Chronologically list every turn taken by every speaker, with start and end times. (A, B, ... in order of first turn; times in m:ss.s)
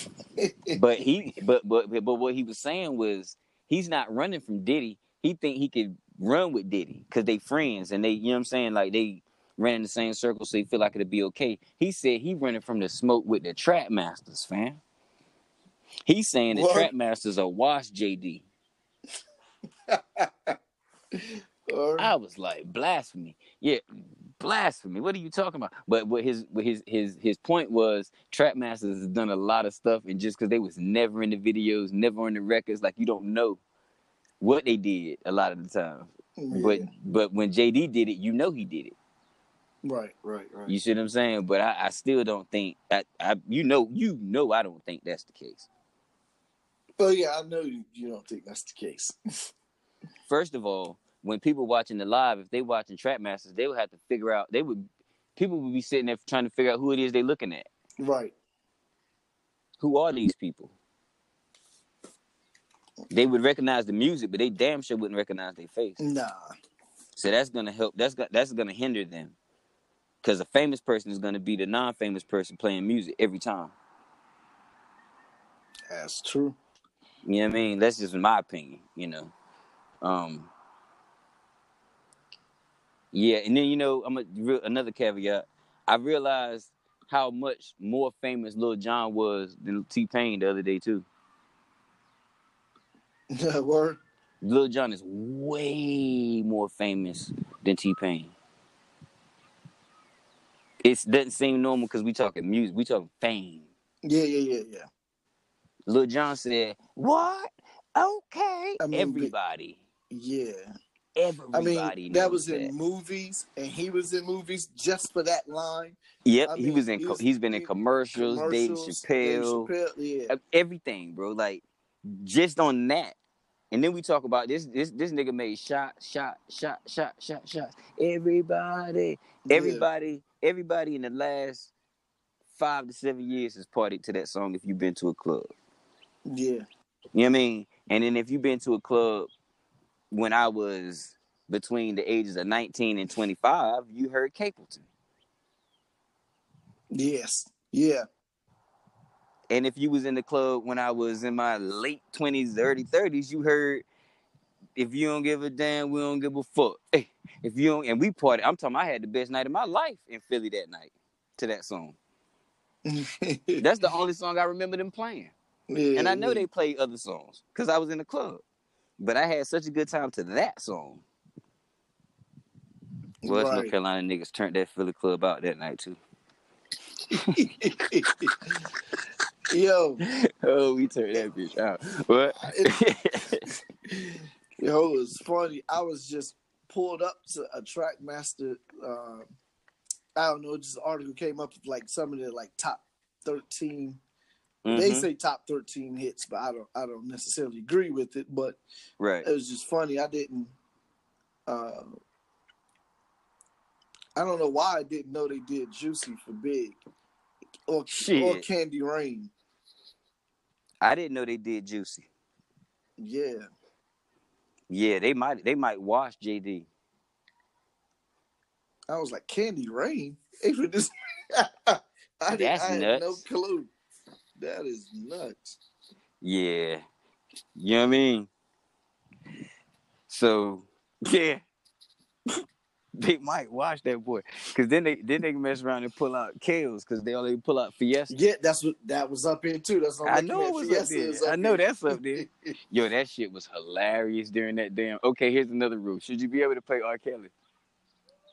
0:00.4-0:00.8 A
0:00.7-0:14.8 B
0:16.1-0:18.4 B
0:16.5-0:16.9 A
0:19.9-0:20.6 A
0:21.1-0:22.1 A
0:22.0-0:23.8 B
0:24.4-0:33.6 B
0:34.4-0:39.0 B
0:36.4-0:36.9 A
0:39.8-0:40.7 A
0:40.7-0:45.7 B
0:47.0-0:49.2 A
0:50.3-0:57.7 B
0:58.0-0:58.3 A
0:59.8-1:00.7 B
1:03.1-1:06.0 B
1:06.0-1:06.5 A
1:07.2-1:09.4 B
1:10.2-1:13.7 B
1:15.9-1:16.6 A
1:17.3-1:19.3 B
1:20.0-1:20.5 B
1:23.1-1:31.1 B
1:33.3-1:34.0 A
1:34.4-1:38.3 B
1:40.8-1:43.7 B
1:44.0-1:44.9 A
1:45.9-1:49.8 B
1:48.8-1:49.3 A
1:50.1-1:50.7 A
1:51.2-1:52.7 B
1:51.5-2:00.4 A
1:56.2-1:59.7 B
2:00.3-2:03.2 B
2:03.7-2:11.7 B
2:09.5-2:09.9 A
2:12.5-2:15.5 B
2:16.3-2:16.7 A
2:17.2-2:19.3 B
2:20.1-2:24.9 B
2:26.9-2:28.0 A
2:29.5-2:33.8 B
2:34.8-2:42.0 B
2:42.8-2:43.6 A
2:43.6-2:45.3 B
2:45.7-2:46.5 A
2:46.0-2:48.4 B
2:49.0-2:51.0 B
2:53.2-2:53.7 A
2:53.2-2:56.0 B
2:57.1-2:58.2 B
2:57.4-2:58.5 A
2:59.5-3:00.0 A
3:00.0-3:03.5 B
3:02.4-3:02.7 A
3:03.9-3:09.3 A
3:10.2-3:14.0 A
3:14.6-3:15.1 B
3:14.7-3:18.6 A
3:19.0-3:19.3 B
3:19.2-3:20.5 A
3:21.5-3:21.9 A
3:24.2-3:26.8 A
3:27.7-3:29.3 A
3:28.0-3:28.5 B
3:30.8-3:32.1 B
3:33.0-3:33.5 A
3:34.7-3:36.7 B
3:38.9-3:43.7 A
3:42.3-3:43.2 B
3:44.4-3:45.6 A
3:46.2-3:46.8 B
3:47.6-3:48.3 B
3:50.1-3:51.4 B
3:53.0-3:58.2 B
3:58.1-4:02.5 A
4:00.0-4:07.3 B